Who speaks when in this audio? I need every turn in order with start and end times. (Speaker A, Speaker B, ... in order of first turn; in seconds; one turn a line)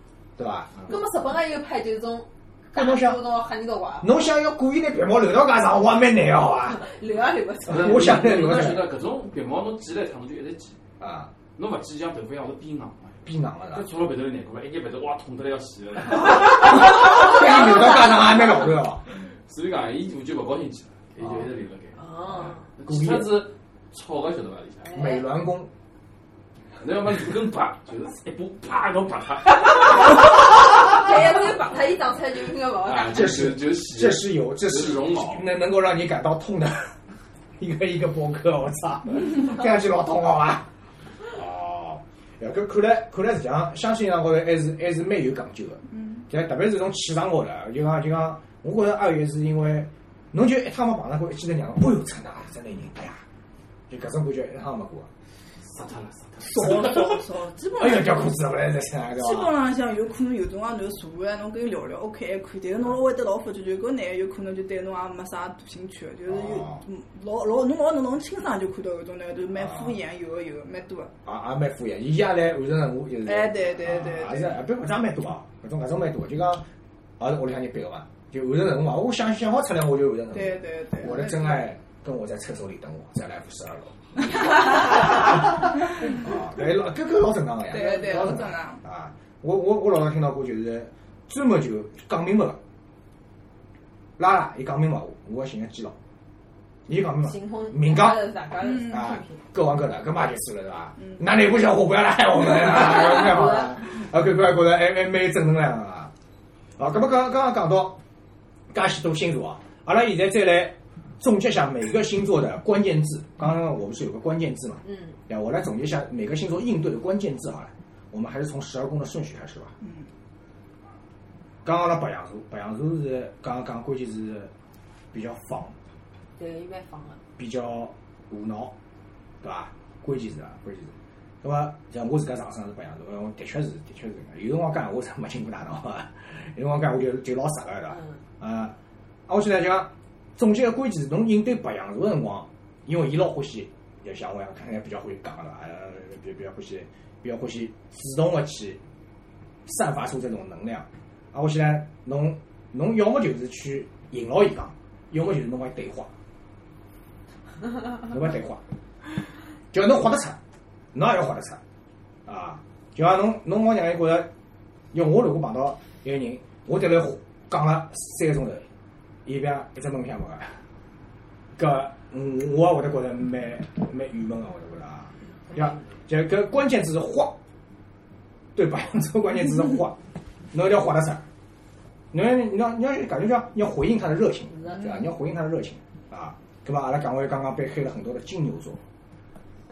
Speaker A: 0.4-0.8
Speaker B: 0.9-4.1
Speaker A: 2.7-3.2
Speaker A: 4.0-6.8
Speaker B: 6.8-8.1
Speaker A: 7.7-8.9
Speaker C: 7.7-10.8
Speaker A: 11.0-11.3
Speaker C: 11.6-16.9
Speaker A: 13.2-13.9
Speaker A: 16.6-19.0
Speaker B: 17.0-17.4
Speaker C: 19.3-25.0
Speaker B: 22.0-22.6
Speaker A: 22.8-23.5
Speaker B: 24.8-25.3
Speaker A: 24.9-25.7
Speaker C: 26.8-30.3
Speaker B: 30.2-33.5
Speaker C: 32.8-35.6
Speaker A: 33.1-36.9
Speaker A: 37.6-40.7
Speaker A: 41.3-53.2
Speaker A: 53.9-55.1
Speaker C: 55.6-57.2
Speaker D: 56.4-58.4
Speaker A: 57.8-59.5
Speaker D: 59.1-71.1
Speaker A: 66.3-66.8
Speaker A: 69.6-69.9
Speaker A: 71.2-76.7
Speaker D: 73.2-74.6
Speaker A: 77.2-92.6
Speaker D: 80.3-81.7
Speaker D: 87.7-88.8
Speaker A: 94.2-96.0
Speaker A: 96.9-106.1
Speaker B: 97.2-99.4
Speaker B: 102.6-103.8
Speaker A: 106.8-108.0
Speaker A: 108.7-119.7
Speaker B: 114.9-115.2
Speaker D: 119.8-120.1
Speaker A: 121.6-124.5
Speaker A: 125.1-125.8
Speaker B: 126.4-127.2
Speaker A: 127.4-128.7
Speaker A: 129.4-138.8
Speaker A: 139.3-148.8
Speaker A: 149.7-156.1
Speaker A: 158.0-158.6
Speaker A: 159.7-160.4
Speaker A: 160.9-161.6
Speaker A: 162.3-164.3
Speaker A: 164.9-168.7
Speaker A: 169.2-170.6
Speaker A: 171.6-177.4
Speaker A: 178.6-180.0
Speaker A: 180.5-181.2
Speaker A: 182.1-188.8
Speaker B: 184.5-185.0